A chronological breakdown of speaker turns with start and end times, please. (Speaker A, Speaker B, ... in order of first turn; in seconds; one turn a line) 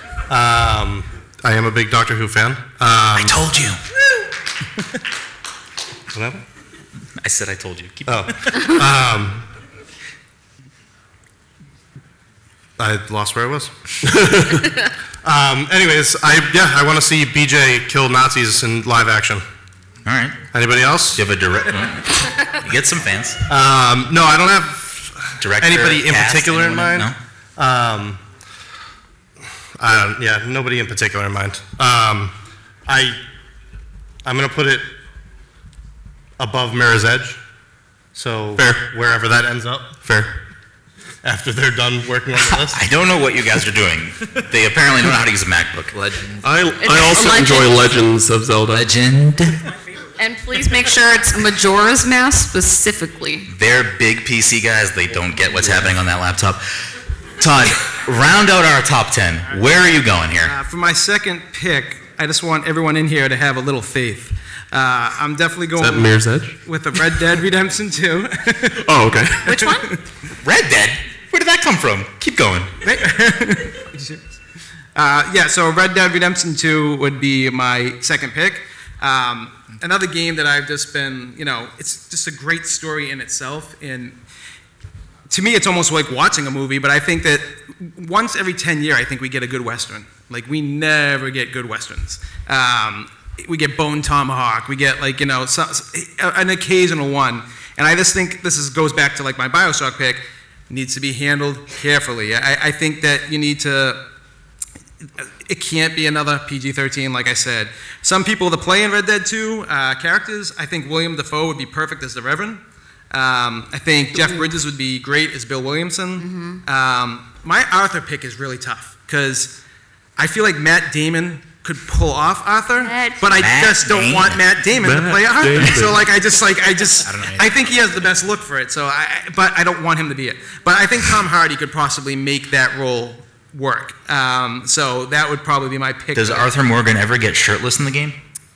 Speaker A: 0.3-3.3
Speaker B: 3.1-3.8
Speaker A: 6.1-6.4
Speaker B: 7.2-8.3
Speaker A: 8.1-9.4
Speaker A: 12.8-13.7
Speaker C: 14.1-14.7
Speaker A: 15.2-19.4
Speaker B: 20.0-20.4
Speaker A: 20.5-21.2
Speaker B: 21.1-23.4
Speaker A: 23.5-28.2
Speaker B: 25.4-27.1
Speaker A: 29.8-32.3
Speaker A: 32.9-33.2
Speaker A: 34.2-34.9
Speaker A: 36.4-37.4
Speaker A: 38.1-40.2
Speaker C: 38.6-38.8
Speaker A: 41.2-42.8
Speaker B: 42.4-45.9
Speaker D: 45.9-46.5
Speaker C: 46.4-48.9
Speaker E: 46.8-47.7
Speaker D: 48.7-49.5
Speaker E: 50.2-53.5
Speaker B: 53.5-56.9
Speaker B: 57.4-60.5
Speaker F: 60.4-68.8
Speaker C: 65.8-66.6
Speaker C: 68.8-69.5
Speaker E: 69.4-69.9
Speaker F: 69.6-70.0
Speaker B: 70.4-72.7
Speaker F: 72.8-74.2
Speaker F: 74.9-84.2
Speaker F: 85.3-104.0
Speaker F: 105.2-119.5
Speaker E: 116.2-116.6
Speaker F: 120.2-136.5
Speaker E: 122.8-123.3
Speaker B: 123.4-124.4
Speaker C: 124.8-126.1
Speaker D: 127.0-127.8
Speaker B: 136.1-138.2